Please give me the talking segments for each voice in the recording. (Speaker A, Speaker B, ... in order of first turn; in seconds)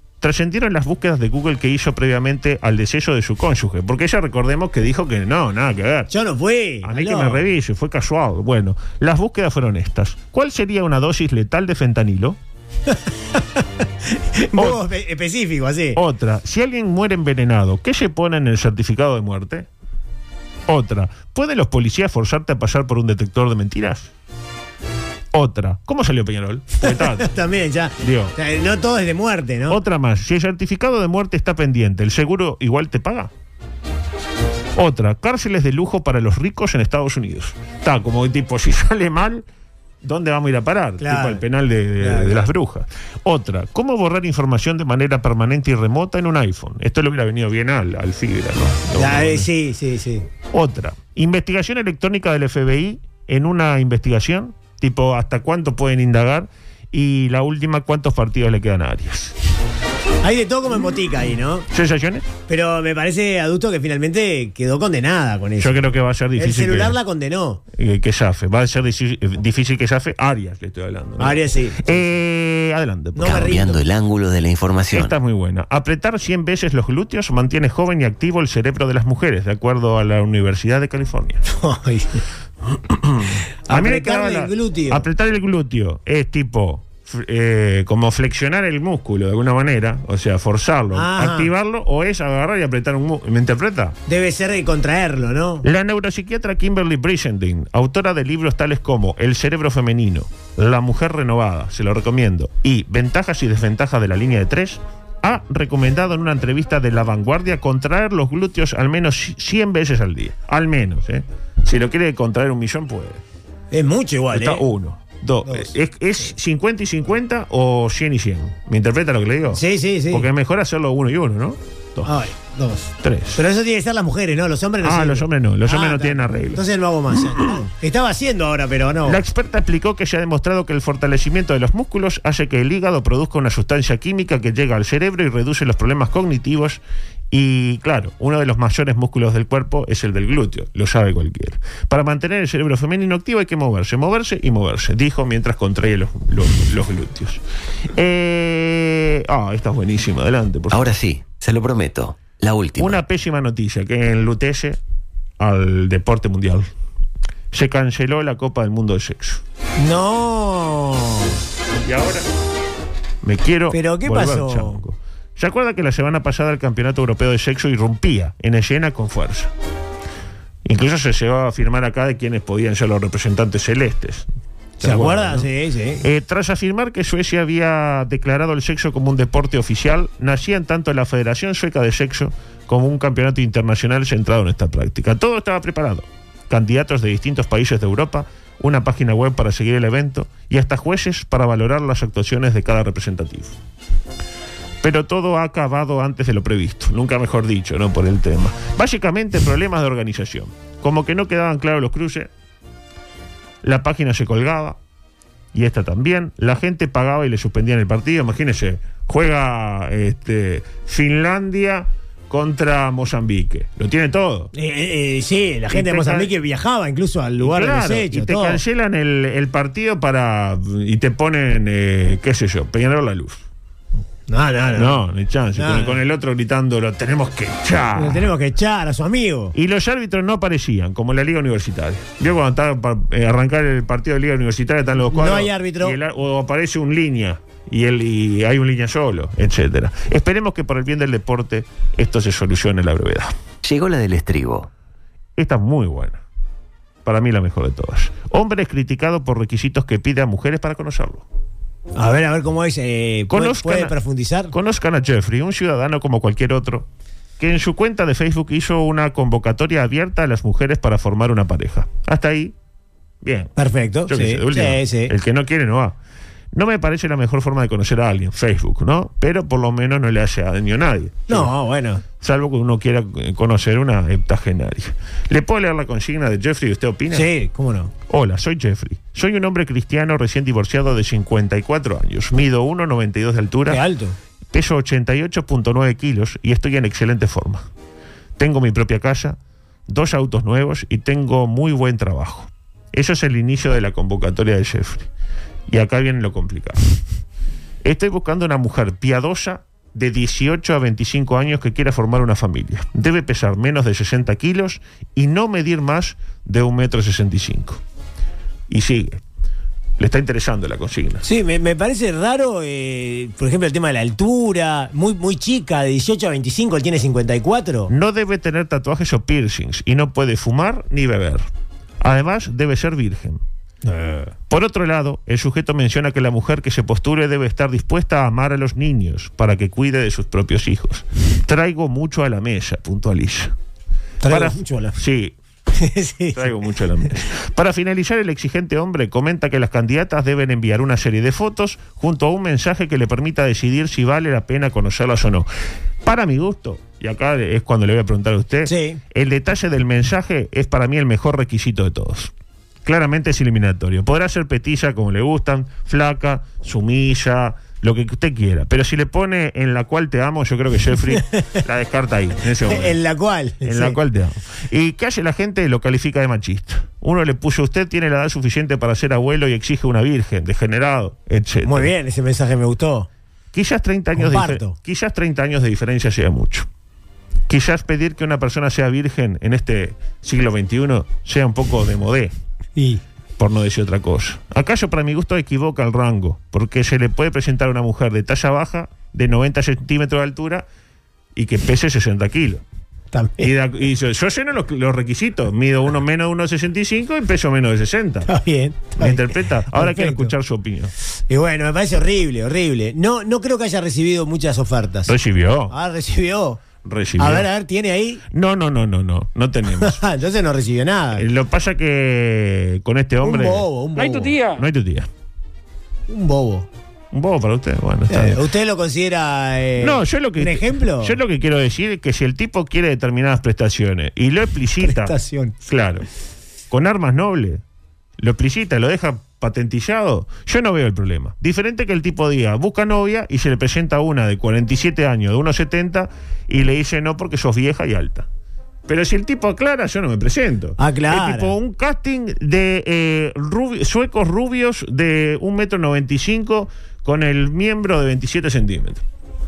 Speaker A: 0.2-6.1, 6.8-12.4, 14.5-14.8, 15.9-19.7, 20.7-24.1, 25.3-27.3, 28.0-28.3, 29.7-33.3, 34.8-39.4, 40.0-49.5, 50.5-59.4, 61.7-62.3, 65.6-67.0, 67.8-73.5, 74.9-81.4, 82.9-94.0, 95.6-113.2, 114.3-122.1, 123.0-123.4, 124.8-126.6, 129.0-147.4, 147.9-150.8, 152.8-154.8, 155.4-156.7, 157.5-159.4, 161.8-162.2, 163.2-169.5, 170.6-174.3, 174.8-175.5, 176.0-193.5, 194.8-202.3, 203.6-204.8, 205.5-214.5, 215.7-216.3, 217.4-223.4, 224.7-228.3, 229.5-243.3, 245.4-246.2, 247.0-251.2, 253.3-253.9, 254.5-256.9, 257.4-262.5, 263.2-263.5, 264.1-265.9, 266.5-271.5, 272.2-277.3, 278.1-283.8, 284.5-287.6, 288.4-289.4, 289.9-295.1, 295.7-296.8, 297.8-307.8, 308.7-309.2, 310.0-311.2, 317.9-321.4, 322.0-323.4, 324.5-333.5, 334.3-335.3, 336.3-345.5, 346.0-352.3, 352.8-363.0, 363.6-371.9, 373.5-376.7, 377.5-382.3, 383.4-390.6, 391.3-392.6, 393.4-398.3, 399.0-400.9, 405.1-405.7, 406.8-407.5, 408.3-410.0, 411.1-413.7, 414.6-415.1, 417.1-418.4, 419.8-426.0, 426.7-427.6, 428.2-438.3, 438.9-449.0
Speaker B: 6.1-7.4, 12.9-16.0, 26.9-29.8, 41.0-41.4, 42.0-42.4, 49.0-50.2, 60.2-61.6, 62.5-65.8, 66.4-67.6, 71.2-72.0, 73.2-73.8, 81.5-82.2, 83.7-85.0, 90.9-91.5, 94.1-95.6, 113.7-114.6, 115.4-115.7, 119.5-120.2, 122.0-129.2, 159.8-161.3, 163.7-164.8, 174.8-176.0, 214.5-218.6, 224.3-225.0, 225.6-226.0, 227.9-229.5, 235.1-235.9, 251.9-254.5, 263.6-265.1, 271.3-272.0, 277.1-277.9, 283.7-284.1, 311.2-317.9, 323.9-324.3, 334.2-335.0, 335.7-336.6, 348.7-349.0, 362.7-364.0, 371.6-373.1, 374.1-374.8, 393.1-393.5, 398.3-400.3, 401.3-405.1, 405.7-406.6, 407.2-408.2, 409.8-411.2, 413.2-414.4, 416.1-416.7, 418.1-421.2, 424.8-425.5, 440.8-441.5
Speaker C: 73.2-75.1, 150.7-153.0, 243.6-244.7